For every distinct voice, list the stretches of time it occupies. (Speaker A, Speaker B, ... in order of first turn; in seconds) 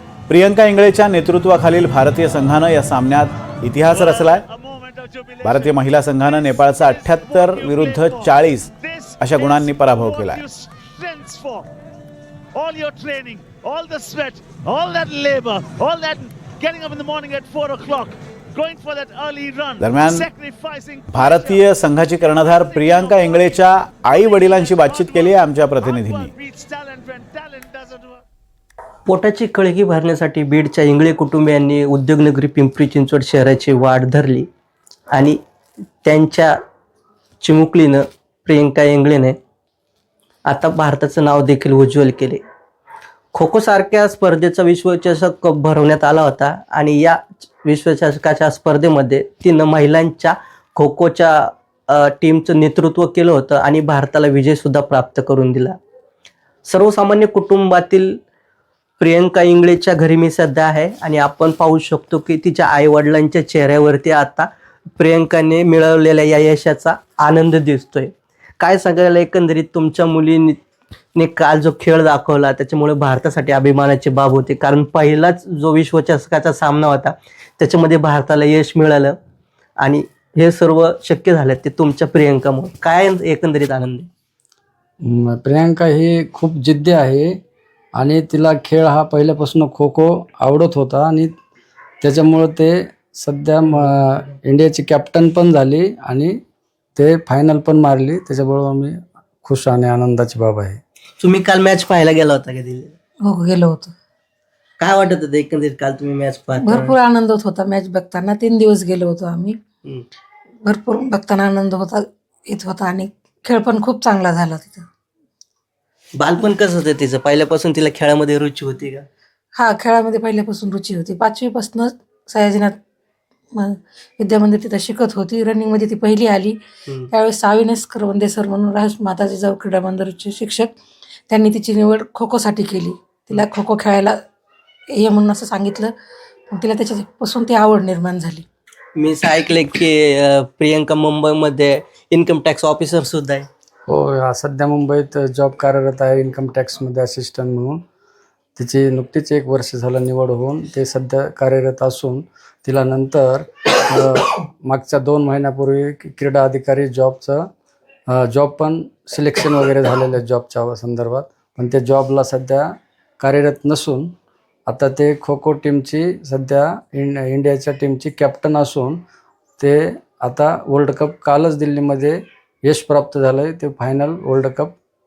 Speaker A: 0.3-4.4, 5.4-10.4, 19.8-20.3, 21.1-26.3
Speaker B: 3.9-11.7, 12.5-21.7, 22.4-28.2
Speaker C: 29.1-34.5, 35.1-35.4, 36.0-36.5, 37.4-39.4, 40.5-42.4, 43.3-55.8, 56.6-58.1, 59.0-64.5, 65.0-70.5, 71.2-79.2, 79.8-84.1, 101.2-102.9, 104.8-106.9, 116.2-119.0, 138.9-143.5
Speaker D: 85.0-87.3, 88.0-91.3, 92.0-96.4, 97.0-100.8, 143.9-147.8, 148.6-157.4, 158.1-162.7, 163.2-164.1, 164.7-169.0, 169.6-174.8
Speaker E: 103.2-103.9, 106.6-109.5, 110.6-114.9, 119.5-122.8, 123.5-126.6, 127.1-130.8, 131.3-134.2, 134.9-135.9, 136.5-138.4